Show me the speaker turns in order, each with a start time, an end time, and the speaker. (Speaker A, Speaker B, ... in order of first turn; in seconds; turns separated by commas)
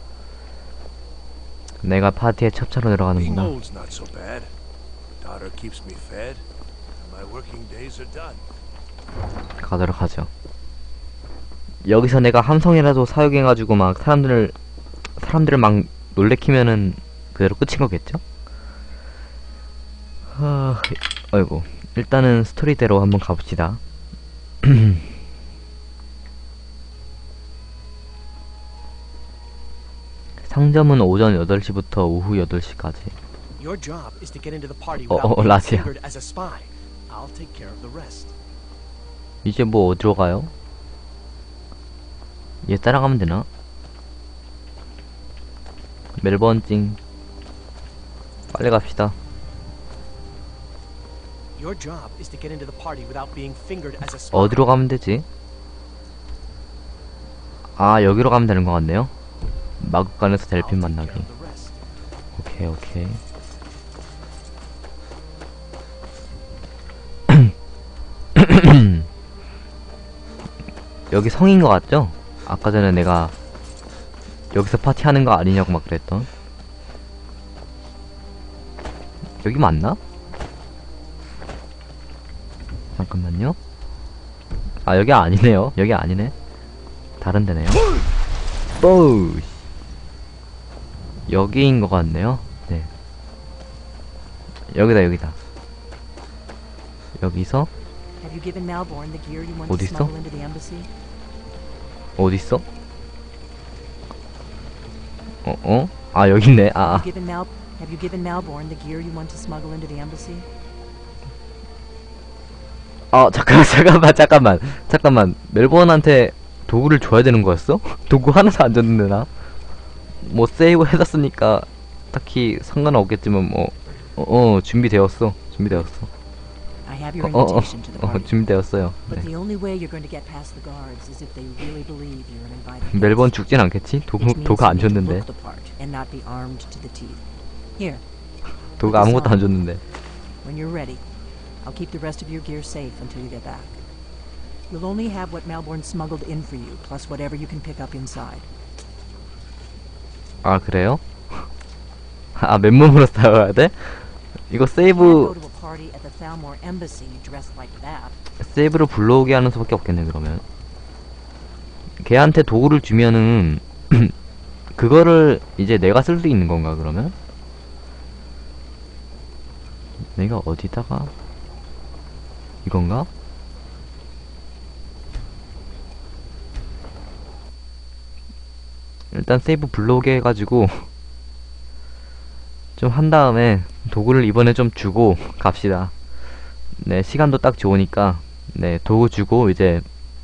Speaker A: 1.8-3.6, Speaker B: 3.1-4.5, Speaker B: 5.2-6.4, Speaker B: 7.0-8.4, Speaker A: 9.6-10.3, Speaker A: 11.8-14.5, Speaker A: 15.2-18.2, Speaker A: 20.3-23.8, Speaker A: 24.6-25.0, Speaker A: 30.5-33.1, Speaker C: 33.6-38.3, Speaker A: 34.9-35.9, Speaker A: 39.4-40.5, Speaker A: 42.6-43.5, Speaker A: 46.2-47.0, Speaker A: 48.5-49.1, Speaker C: 51.5-54.7, Speaker A: 54.3-55.2, Speaker A: 57.8-59.1, Speaker A: 59.8-61.3, Speaker C: 60.5-61.8, Speaker A: 62.4-63.2, Speaker A: 67.3-67.5, Speaker A: 68.3-69.1, Speaker A: 71.1-73.3, Speaker A: 74.5-76.3, Speaker A: 79.4-80.0, Speaker A: 83.0-83.6, Speaker A: 84.8-86.3, Speaker A: 87.2-87.8, Speaker A: 88.8-89.5, Speaker A: 91.3-92.9, Speaker A: 94.7-95.3, Speaker A: 97.2-97.7, Speaker D: 98.2-100.9, Speaker A: 99.7-100.1, Speaker A: 102.2-102.6, Speaker A: 105.4-107.1, Speaker D: 106.8-110.5, Speaker A: 113.1-119.3, Speaker A: 120.2-126.1, Speaker D: 126.8-128.3, Speaker A: 127.2-129.3, Speaker D: 129.1-133.4, Speaker A: 132.9-135.2, Speaker D: 134.1-137.2, Speaker D: 137.8-138.0, Speaker D: 138.8-139.4, Speaker A: 138.8-139.8, Speaker D: 140.4-141.0, Speaker D: 141.6-143.8, Speaker D: 144.7-148.5, Speaker A: 150.4-151.0, Speaker A: 152.4-155.3, Speaker D: 154.8-158.1, Speaker A: 158.4-160.4, Speaker A: 162.0-164.1, Speaker A: 164.8-167.1, Speaker A: 170.2-171.1, Speaker A: 172.6-173.1, Speaker A: 179.1-180.9, Speaker A: 182.8-185.9, Speaker A: 186.8-189.8